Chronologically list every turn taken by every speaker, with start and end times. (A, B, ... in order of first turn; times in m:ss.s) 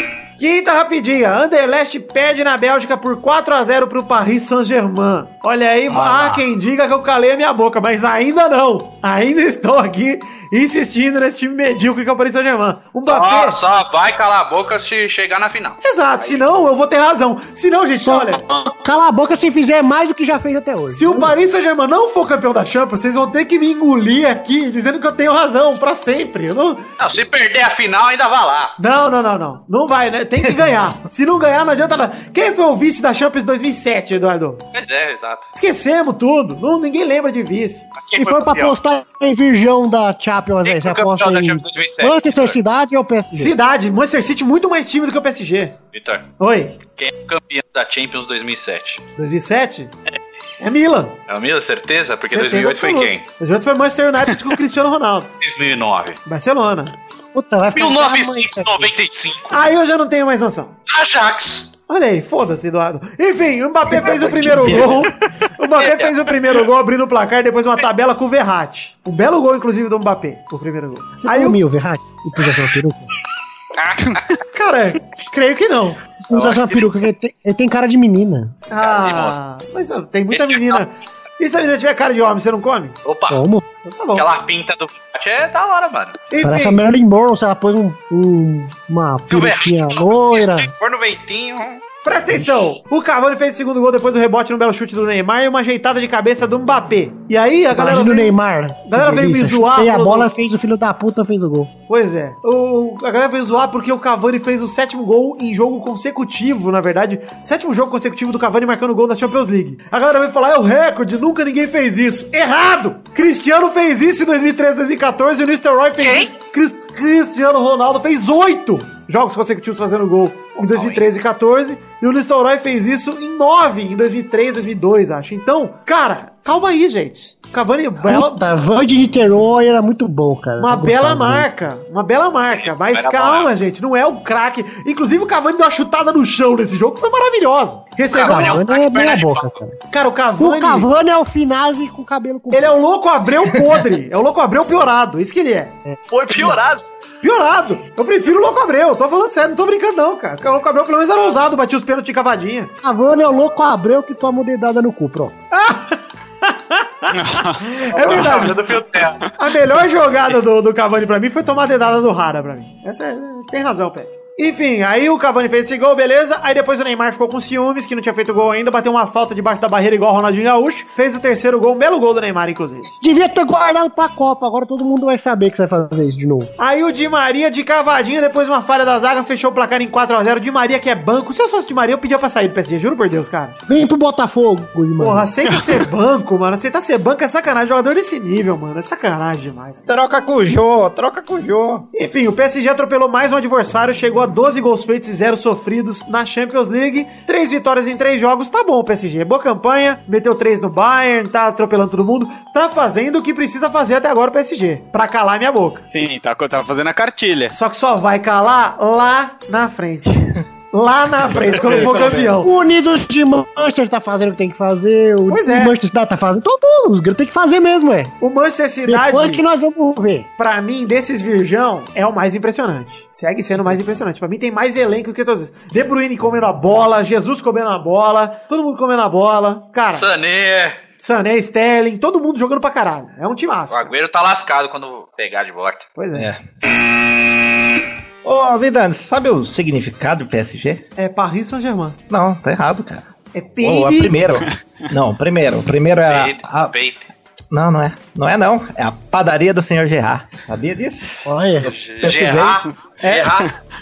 0:00.4-0:13.6 A
0:05.9-0:06.4 B
0:13.0-0:16.4 C
0:15.8-0:18.4 A
0:18.0-0:21.3 D
0:20.9-0:26.8 A
0:27.0-0:28.7 C
0:28.8-0:34.6 A
0:34.7-0:35.5 C
0:35.5-0:37.9 A
0:38.0-0:38.8 C
0:38.1-0:43.6 D
0:40.6-0:42.6 C
0:43.3-0:45.8 A
0:45.9-0:46.2 C
0:46.4-0:46.8 A
0:47.0-0:49.0 C
0:49.2-0:49.9 A
0:50.6-0:51.2 A
0:51.3-0:53.2 C
0:52.3-0:55.3 A
0:55.4-0:56.2 C
0:56.2-0:56.9 A
0:57.3-0:58.9 D
0:57.7-0:59.5 C
0:59.5-1:00.7 A
1:00.9-1:01.7 C
1:01.9-1:11.6 A
1:03.9-1:05.1 B
1:05.8-1:06.1 C
1:11.2-1:13.1 D
1:13.8-1:14.2 C
1:14.5-1:16.0 A
1:16.3-1:18.6 D
1:16.3-1:16.9 C
1:18.7-1:23.0 A
1:18.8-1:19.4 C
1:20.3-1:20.8 C
1:23.0-1:23.4 C
1:23.3-1:23.6 D
1:23.8-1:24.2 A
1:24.1-1:26.2 C
1:26.3-1:26.8 A
1:26.4-1:30.7 D
1:29.3-1:31.8 C
1:32.0-1:40.3 A
1:37.7-1:41.7 D
1:41.9-2:08.4 A
1:56.0-1:56.3 C
2:00.7-2:01.0 C
2:08.0-2:11.5 D
2:10.6-2:18.6 A
2:12.5-2:13.5 C
2:18.1-2:19.6 C
2:18.1-2:19.8 D
2:19.9-2:20.9 A
2:20.4-2:22.8 D
2:22.5-2:25.7 A
2:26.1-2:26.9 C
2:27.2-2:32.7 A
2:32.8-2:35.3 D
2:35.5-2:52.9 A
2:37.1-2:38.4 E
2:37.9-2:39.2 C
2:53.0-2:56.5 D
2:56.6-3:03.6 A
3:03.7-3:05.3 D
3:05.0-3:09.9 A
3:09.8-3:11.9 B
3:11.9-3:25.8 A
3:25.9-3:27.5 E
3:27.5-3:32.5 A
3:31.6-3:32.4 E
3:32.4-3:38.1 D
3:35.3-3:35.7 A
3:38.2-3:39.4 A
3:38.8-3:40.3 D
3:40.4-3:50.1 A
3:49.9-3:50.8 C
3:51.0-3:53.9 A
3:53.7-3:55.9 C
3:56.0-3:56.3 A
3:56.1-3:56.4 B
3:58.2-4:00.8 B
4:01.0-4:02.0 A
4:02.1-4:03.0 B
4:03.3-4:04.3 A
4:03.6-4:06.7 B
4:06.0-4:07.1 C
4:07.5-4:11.2 B
4:11.2-4:11.7 D
4:11.6-4:13.5 C
4:12.0-4:13.4 B